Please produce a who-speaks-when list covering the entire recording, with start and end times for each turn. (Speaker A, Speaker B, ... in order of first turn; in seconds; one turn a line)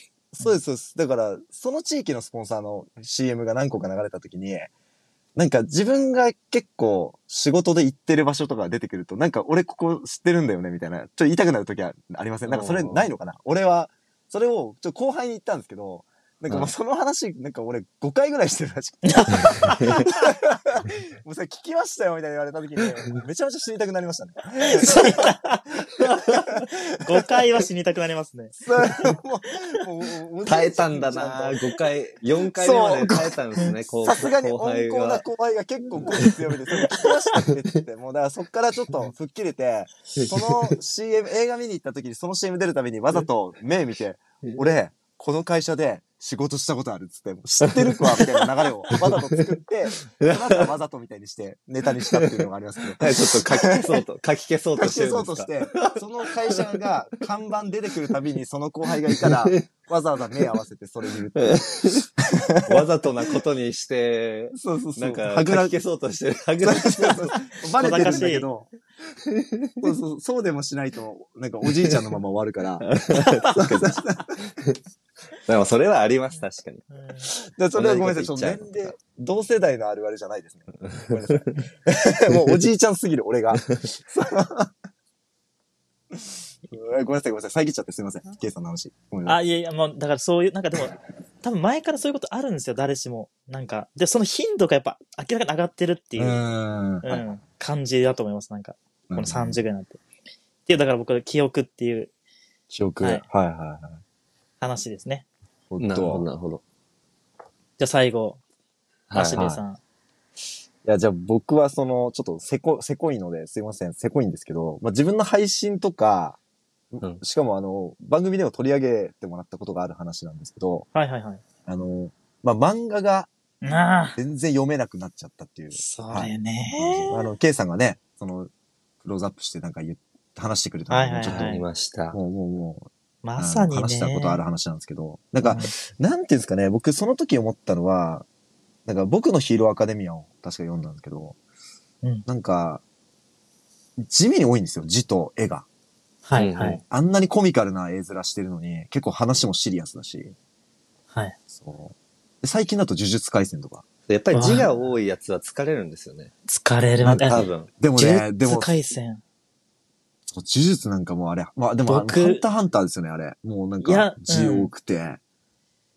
Speaker A: 0.3-4.7
Speaker A: 5.3-25.4
Speaker B: 12.4-13.1
Speaker C: 19.0-20.2
Speaker B: 19.5-19.9
Speaker C: 24.7-25.7
Speaker A: 26.4-27.2
Speaker C: 27.0-28.6
Speaker A: 28.6-31.6
Speaker B: 30.4-35.2
Speaker A: 32.5-33.4
Speaker A: 34.0-54.0
Speaker B: 40.1-40.7
Speaker B: 47.7-48.3
Speaker B: 48.9-49.4
Speaker B: 50.1-50.7
Speaker B: 52.1-52.4
Speaker B: 52.9-56.8
Speaker A: 54.8-62.8
Speaker B: 59.1-59.6
Speaker B: 61.3-62.1
Speaker B: 62.6-68.2
Speaker A: 64.5-65.7
Speaker A: 66.6-68.7
Speaker C: 67.8-68.5
Speaker B: 69.3-69.7
Speaker A: 69.8-74.4
Speaker B: 72.8-74.8
Speaker B: 75.5-76.9
Speaker C: 76.9-77.3
Speaker A: 77.3-84.7
Speaker B: 77.7-78.9
Speaker B: 80.9-81.6
Speaker A: 86.1-89.4
Speaker C: 89.2-96.4
Speaker A: 96.2-97.2
Speaker C: 97.0-100.0
Speaker A: 99.1-99.6
Speaker C: 100.7-102.1
Speaker A: 102.7-104.0
Speaker C: 104.6-105.2
Speaker A: 105.7-106.2
Speaker B: 105.8-106.6
Speaker C: 107.8-108.4
Speaker B: 109.1-109.5
Speaker C: 109.1-109.8
Speaker A: 110.8-116.4
Speaker A: 116.9-120.8
Speaker C: 120.9-121.4
Speaker A: 121.7-123.3
Speaker C: 123.6-124.2
Speaker A: 124.2-128.5
Speaker C: 125.7-127.3
Speaker A: 129.0-131.6
Speaker C: 130.9-131.6
Speaker B: 131.3-132.2
Speaker A: 132.1-138.2
Speaker C: 133.2-134.4
Speaker C: 135.4-135.7
Speaker A: 138.8-141.3
Speaker A: 142.3-142.8
Speaker A: 144.0-145.7
Speaker C: 146.2-146.8
Speaker B: 146.3-146.8
Speaker A: 146.9-150.3
Speaker A: 151.5-153.8
Speaker B: 154.1-156.3
Speaker C: 154.3-154.7
Speaker C: 156.5-159.2
Speaker A: 157.0-158.7
Speaker B: 157.2-157.7
Speaker A: 160.3-165.2
Speaker C: 161.9-162.4
Speaker C: 163.8-164.7